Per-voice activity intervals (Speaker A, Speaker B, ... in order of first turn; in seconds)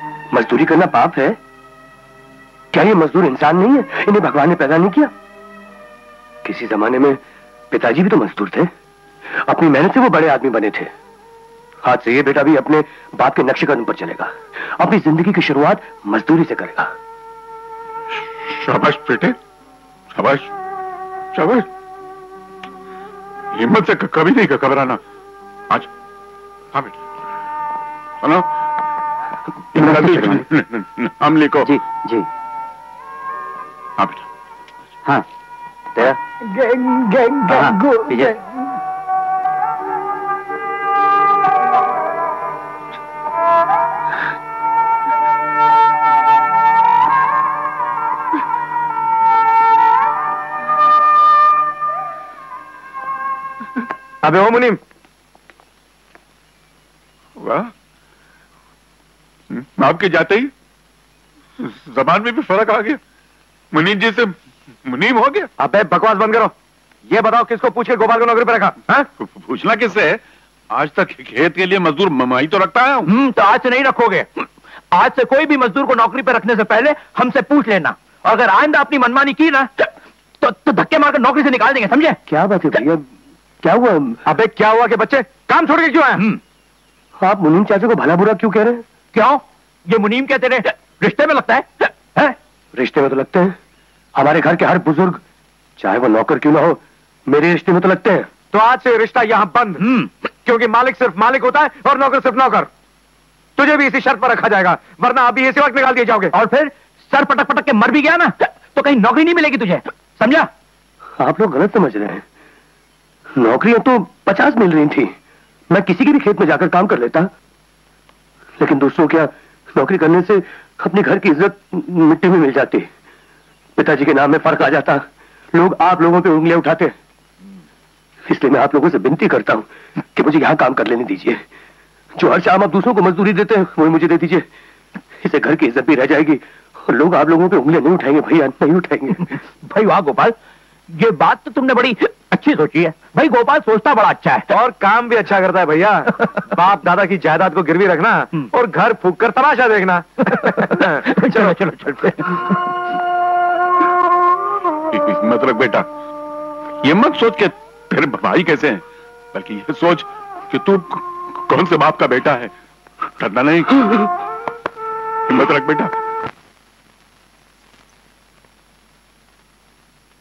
Speaker A: 0.3-1.4, 2.7-5.1, 6.4-7.2, 7.7-8.7, 9.4-10.9, 11.8-16.9, 82.3-83.0, 83.6-84.2, 87.2-88.8, 92.7-93.5, 94.2-95.2, 95.8-98.3, 111.2-112.2, 113.4-115.1, 115.7-117.3, 118.6-122.9, 123.8-126.9, 128.3-131.4, 132.2-134.4, 135.2-139.2
Speaker B: 18.4-19.4, 20.1-20.5, 21.3-21.6, 23.6-25.0, 26.7-27.0, 29.7-31.8, 34.0-34.2, 57.4-57.7, 59.5-60.5, 61.6-63.0, 63.7-64.3, 64.9-65.5, 69.2-70.2, 70.7-73.1, 154.9-155.8, 156.8-158.8, 159.3-162.5, 163.2-164.0, 165.3-165.9
Speaker C: 54.2-54.8, 65.6-66.5, 67.1-68.8, 84.3-86.2, 98.5-99.8, 100.4-102.7, 103.6-106.3, 144.5-151.6
Speaker D: 73.1-74.4, 74.9-79.8, 80.4-82.2, 89.1-91.6, 99.8-100.1, 106.3-110.5, 139.6-140.3, 140.9-144.5, 150.4-152.3